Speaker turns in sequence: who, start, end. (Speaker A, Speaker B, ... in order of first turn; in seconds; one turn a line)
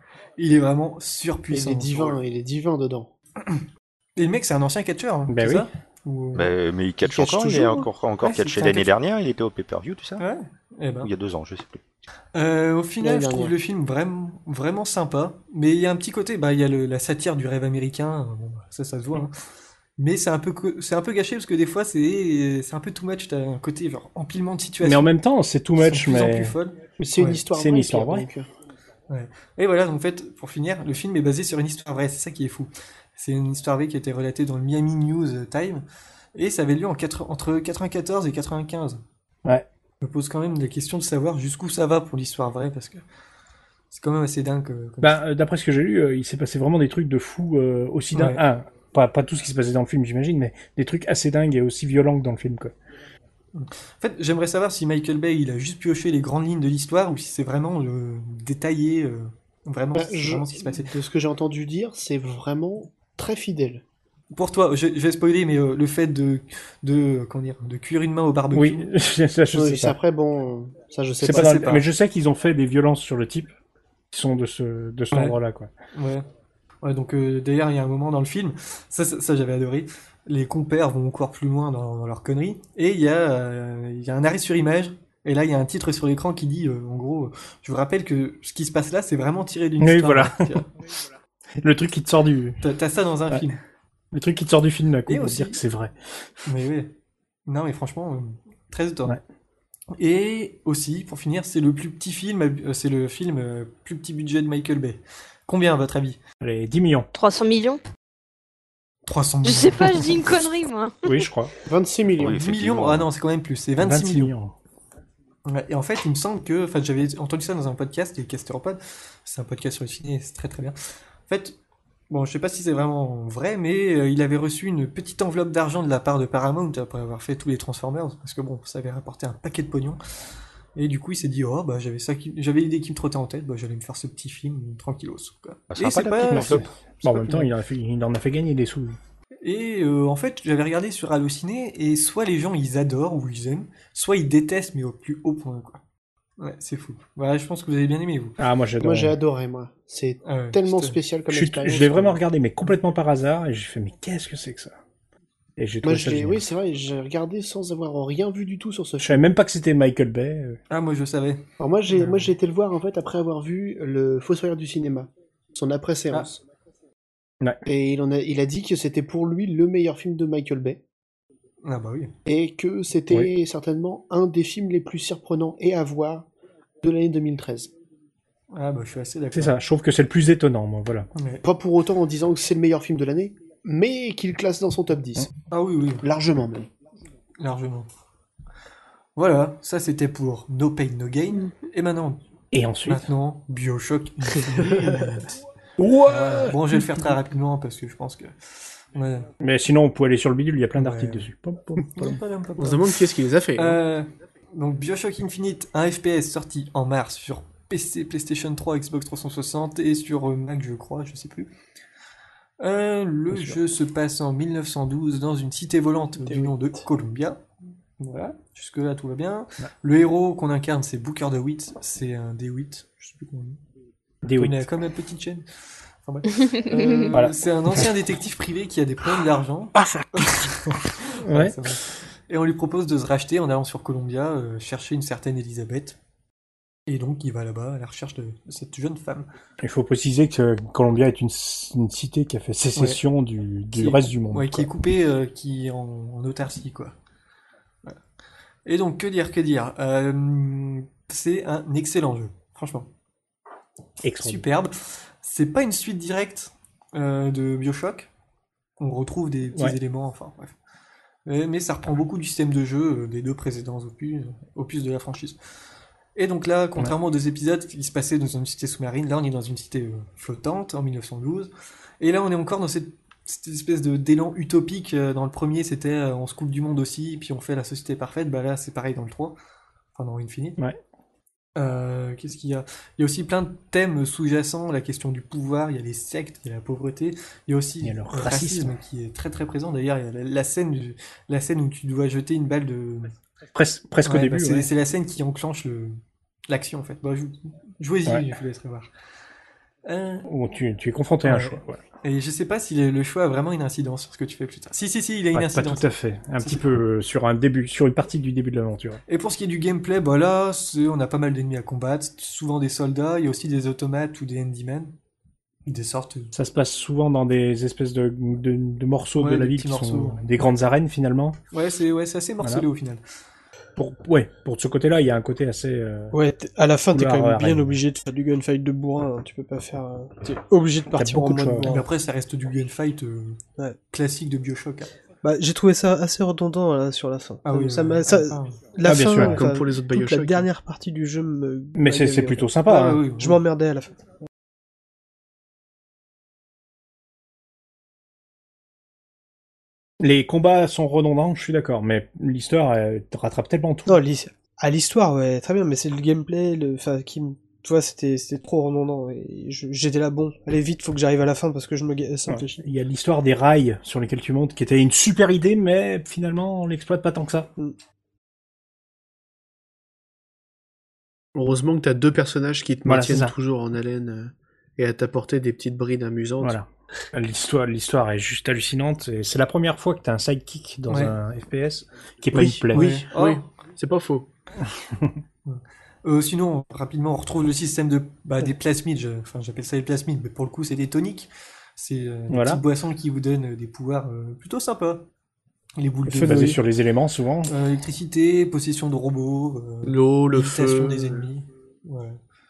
Speaker A: 0.4-2.1
Speaker B: 1.5-3.1
Speaker A: 4.2-6.5
Speaker C: 5.3-5.7
Speaker D: 6.3-10.2
Speaker B: 7.0-7.9
Speaker A: 8.2-8.9
Speaker A: 10.2-11.1
Speaker D: 11.0-11.8
Speaker A: 12.3-19.4
Speaker B: 13.0-13.5
Speaker A: 20.0-25.1
Speaker C: 24.8-26.6
Speaker A: 25.8-27.4
Speaker B: 27.0-28.5
Speaker C: 27.5-28.3
Speaker A: 29.1-39.0
Speaker A: 40.0-43.0
Speaker A: 43.9-45.2
Speaker C: 45.0-52.7
Speaker A: 48.1-48.4
Speaker A: 53.5-60.9
Speaker B: 59.9-63.8
Speaker A: 64.3-68.9
Speaker C: 68.5-70.0
Speaker B: 69.5-71.8
Speaker C: 71.2-73.5
Speaker A: 71.3-71.8
Speaker C: 74.1-75.7
Speaker A: 75.1-75.4
Speaker A: 75.9-76.2
Speaker A: 76.8-90.7
Speaker C: 89.8-90.6
Speaker C: 91.6-92.6
Speaker A: 92.6-93.6
Speaker C: 94.1-95.9
Speaker A: 95.1-95.6
Speaker A: 96.5-96.9
Speaker A: 97.5-99.2
Speaker A: 100.0-106.2
Speaker C: 106.4-107.1
Speaker E: 107.1-107.8
Speaker A: 109.0-110.3
Speaker E: 109.5-111.2
Speaker C: 111.0-111.5
Speaker B: 111.6-112.4
Speaker D: 112.2-113.1
Speaker A: 112.3-114.3
Speaker C: 113.8-114.5
Speaker A: 115.5-120.7
Speaker A: 121.3-121.5
Speaker A: 122.1-130.0
Speaker A: 130.7-137.5
Speaker D: 135.7-136.7
Speaker C: 136.2-139.0
Speaker A: 139.4-145.8
Speaker A: 146.4-148.4
Speaker C: 148.4-149.2
Speaker B: 148.8-152.2
Speaker A: 150.2-151.0
Speaker C: 151.3-154.8
Speaker C: 155.6-156.4
Speaker B: 155.8-159.3
Speaker C: 159.0-160.6
Speaker A: 160.7-162.3
Speaker B: 161.6-166.4
Speaker B: 167.7-170.8
Speaker A: 171.6-172.1
Speaker B: 172.2-176.3
Speaker B: 176.8-177.7
Speaker A: 178.5-179.6
Speaker C: 179.3-181.1
Speaker A: 181.2-181.4
Speaker B: 181.4-185.3
Speaker A: 185.5-186.0
Speaker B: 186.0-186.7
Speaker A: 187.4-187.9
Speaker A: 189.2-192.2
Speaker C: 192.5-193.0
Speaker A: 192.9-195.3
Speaker F: 194.6-195.2
Speaker C: 195.8-197.0
Speaker A: 196.0-199.3
Speaker C: 199.4-202.2
Speaker A: 200.8-201.3
Speaker A: 201.8-203.0
Speaker B: 202.6-203.8
Speaker A: 203.6-211.5
Speaker A: 212.6-217.4
Speaker F: 216.2-216.8
Speaker A: 218.0-223.6
Speaker C: 224.2-224.7
Speaker A: 224.3-225.5
Speaker A: 226.0-236.0
Speaker C: 227.1-227.9
Speaker C: 229.8-230.5
Speaker C: 231.2-231.6
Speaker A: 236.9-239.3
Speaker C: 239.6-244.7
Speaker A: 242.8-243.0
Speaker A: 243.7-246.9
Speaker A: 248.7-252.9
Speaker C: 254.0-254.4
Speaker A: 254.2-258.1
Speaker A: 258.8-260.5
Speaker A: 261.2-265.4
Speaker A: 266.1-279.3
Speaker A: 279.9-280.6
Speaker A: 281.6-293.1
Speaker C: 287.8-288.8
Speaker C: 293.5-294.7
Speaker A: 294.0-298.9
Speaker A: 299.8-300.3
Speaker C: 300.3-301.8
Speaker A: 301.2-306.7
Speaker C: 305.3-309.0
Speaker A: 309.1-314.9
Speaker A: 315.6-316.3
Speaker C: 316.3-321.4
Speaker A: 319.1-320.3
Speaker A: 321.5-323.0
Speaker C: 322.4-322.7
Speaker C: 323.8-326.1
Speaker F: 326.1-331.9
Speaker C: 326.9-327.8
Speaker C: 330.9-331.7
Speaker A: 331.6-334.9
Speaker F: 335.2-344.0
Speaker A: 337.4-338.6
Speaker C: 338.8-339.4
Speaker B: 339.2-340.5
Speaker C: 341.7-343.1
Speaker A: 342.7-343.4
Speaker C: 350.0-354.0
Speaker F: 353.9-362.6
Speaker C: 362.3-367.5
Speaker B: 371.3-376.6
Speaker C: 372.8-373.3
Speaker C: 376.4-383.1
Speaker A: 380.9-381.1
Speaker B: 382.3-384.3
Speaker A: 382.7-383.5
Speaker C: 384.8-385.2
Speaker A: 385.4-395.1
Speaker C: 392.3-392.6
Speaker A: 395.8-396.6
Speaker C: 396.1-397.5
Speaker B: 396.2-396.5
Speaker A: 397.5-402.2
Speaker B: 399.8-401.3